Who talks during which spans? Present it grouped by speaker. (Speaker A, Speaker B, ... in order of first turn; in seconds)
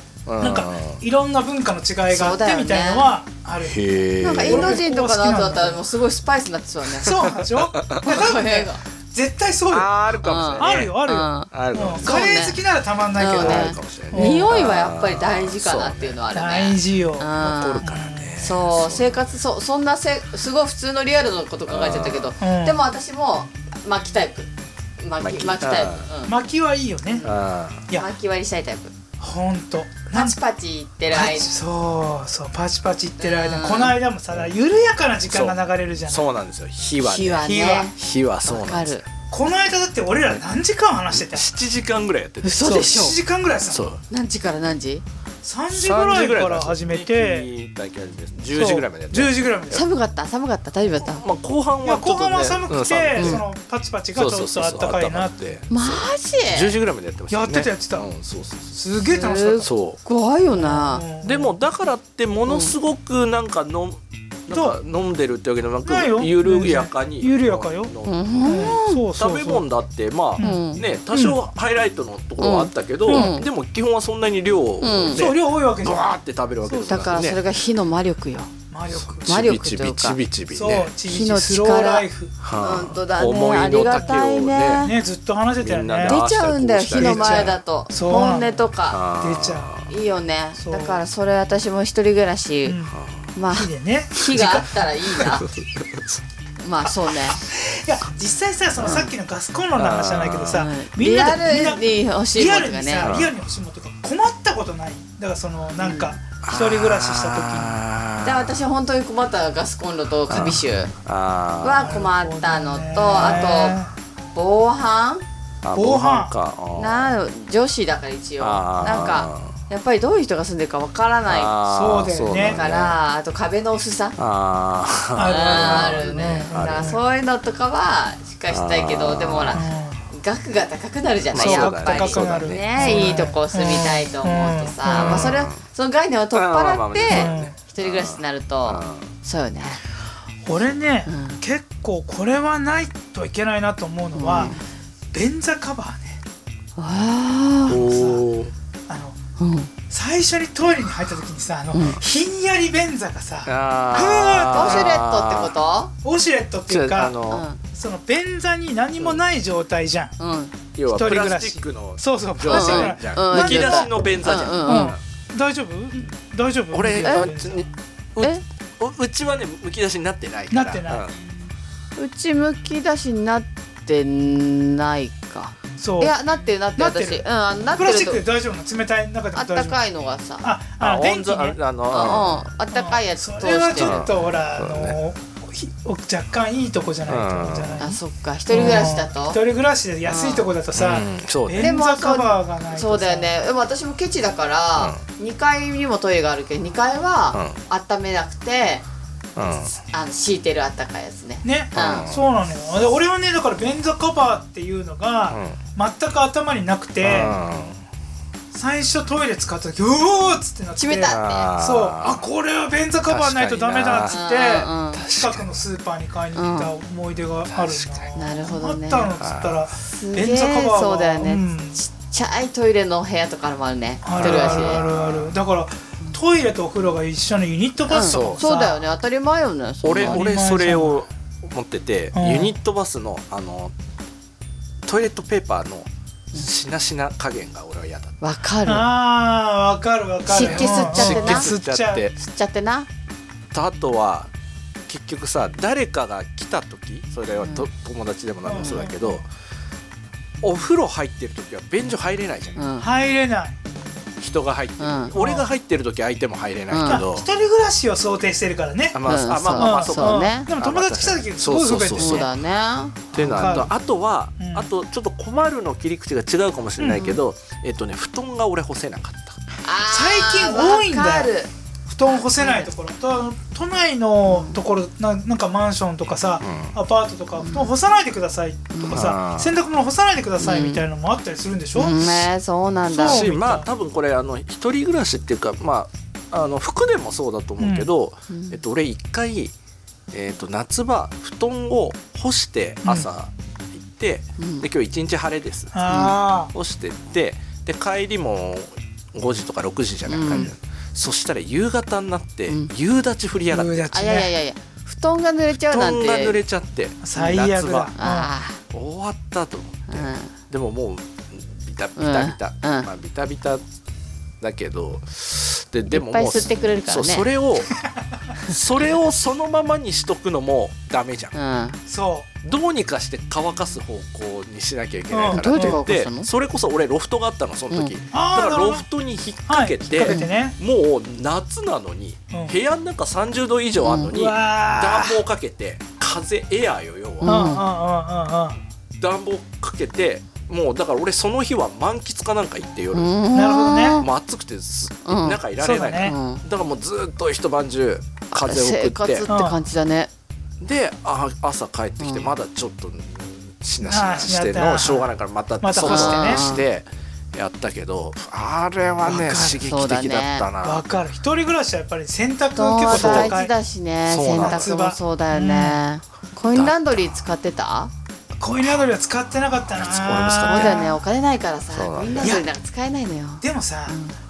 Speaker A: 0.3-1.0, 3.6-4.8, 7.0-8.3, 9.7-11.0, 11.5-12.4, 13.2-16.2, 17.4-19.3, 21.7-22.3, 25.2-26.1, 27.2-27.9, 35.3-35.6, 36.1-39.0, 41.1-42.8, 43.7-44.0, 45.7-49.4, 51.0-53.4, 54.1-58.8, 59.6-60.0, 61.2-77.4, 78.9-80.9, 82.4-84.9, 85.6-87.6, 88.9-89.9, 92.9-93.3, 95.2-96.2, 99.8-100.7, 103.0-103.3, 106.4-108.7, 110.3-112.0, 115.6-117.1, 118.4-119.5, 121.3-123.0, 124.2-127.0, 128.5-129.6, 131.3-133.2, 134.9-135.6, 136.3-139.1, 147.7-148.5, 153.5-155.6, 156.7-157.5, 160.8-165.0, 166.7-171.2, 180.8-182.4, 183.8-185.0, 187.1-187.9, 188.6-188.9, 190.7-191.7, 197.3-197.6, 199.4-199.7, 201.8-202.2, 205.3-205.6, 207.0-207.8, 211.1-212.2, 213.1-214.2, 214.9-215.6, 217.5-218.2, 219.2-219.6, 224.2-225.3, 228.0-228.5, 229.8-233.7, 234.8-238.2, 240.4-242.2, 243.5-244.3, 244.9-249.2, 250.4-252.6, 254.2-257.3, 258.9-262.3, 263.1-269.4, 276.4-276.8, 278.9-279.6, 282.9-289.5, 290.1-295.9, 296.5-303.9, 305.7-307.9, 308.7-313.6, 314.4-317.8, 318.4-321.4, 322.4-337.4, 339.0-343.1, 344.0-349.3, 350.6-360.8, 362.9-363.4, 364.1-364.7, 366.5-367.2, 369.8-370.9, 371.7-372.4
Speaker B: 0.4-5.8, 7.0-9.9, 10.6-14.5, 16.3-18.4, 22.4-22.8, 26.3-27.3, 29.2-30.4, 31.1-36.3, 37.4-37.9, 39.3-41.5, 42.6-43.9, 45.4-47.5, 48.5-49.9, 51.8-55.4, 57.3-58.1, 58.8-59.7, 60.5-61.5, 64.5-64.8, 65.8-67.9, 68.5-69.7, 70.4-71.4, 73.1-73.4, 75.1-77.0, 78.7-79.4, 80.5-82.3, 84.8-86.2, 86.9-88.7, 89.2-89.7, 90.6-91.0, 92.7-93.0, 93.5-95.3, 97.3-107.8, 111.8-113.9, 115.7-116.3, 121.7-122.6, 125.2-127.0, 129.5-130.0, 131.4-135.3, 137.1-137.6, 140.4-144.6, 145.1-146.2, 147.7-148.2, 148.9-149.2, 149.9-155.0, 156.0-157.2, 157.7-160.2, 160.9-167.7, 170.5-171.1, 175.8-176.2, 176.8-179.8, 180.4-188.0, 188.5-193.3, 201.4-207.4, 208.5-221.8, 224.0-228.8, 230.0-231.0, 232.1-232.6, 238.7-242.0, 248.4-249.2, 252.8-253.6, 255.2-255.5, 256.9-259.0, 259.6-262.3, 263.1-263.7, 264.4-264.7, 269.9-271.3, 271.9-282.0, 282.9-283.7, 287.6-287.9, 295.7-296.5, 303.5-304.3, 307.0-308.3, 321.9-322.3, 325.1-325.8, 328.1-328.9, 329.5-330.6, 332.3-332.6, 334.1-335.2, 337.2-338.6, 343.3-344.0, 345.6-346.1, 349.3-349.6, 353.8-356.5, 359.0-359.7, 360.6-363.5, 364.3-365.8, 368.4-371.0, 372.2-372.5, 373.4-374.0
Speaker C: 2.1-3.1, 4.2-7.2, 8.0-8.8, 10.2-11.5, 12.0-12.6, 13.2-17.9, 18.4-26.4, 27.1-28.9, 30.1-31.5, 33.2-34.0, 37.0-39.0, 42.4-43.2, 44.1-45.0, 49.7-51.2, 53.2-53.4, 55.7-56.8, 59.1-61.0, 62.5-62.7, 68.0-69.0, 70.4-70.8, 72.4-73.5, 74.8-75.3, 76.9-78.5, 79.3-80.2, 81.1-82.1, 82.6-84.9, 86.0-89.0, 89.9-92.8, 93.3-95.5, 96.6-97.4, 98.8-99.1, 100.5-103.1, 105.8-106.2, 108.2-110.9, 111.6-113.8, 114.3-115.2, 116.8-121.5, 122.4-124.2, 125.3-139.8, 141.1-141.4, 144.2-144.6, 146.8-147.8, 149.4-149.7, 151.7-152.0, 154.5-155.9, 157.3-157.6, 160.2-160.5, 162.5-165.0, 167.0-167.3, 172.0-178.2, 179.3-180.5, 181.9-184.0, 187.8-189.4, 190.1-190.5, 191.6-198.8, 199.8-202.1, 210.8-211.5, 214.1-215.0, 216.3-216.7, 218.2-219.1, 219.9-224.8, 227.9-230.3, 238.2-238.9, 240.3-241.5, 242.2-242.9, 247.4-247.7, 248.6-248.9, 252.6-252.9, 254.8-255.1, 256.7-257.0, 259.1-260.5, 262.0-263.6, 266.8-267.2, 269.6-271.5, 272.1-272.7, 274.3-274.6, 277.4-277.7, 278.7-279.0, 280.4-280.8, 281.8-283.3, 288.3-288.6, 294.4-294.7, 295.9-296.2, 300.1-300.5, 303.9-306.4, 308.0-308.6, 309.9-310.3, 312.0-312.9, 315.9-317.3, 321.4-321.8, 325.3-326.3, 330.0-330.3, 333.8-334.1, 337.2-337.6, 342.9-344.1, 345.1-345.4, 346.0-346.4, 348.4-350.1, 352.0-352.3, 355.8-356.6, 359.6-360.5, 362.6-367.9, 370.4-374.1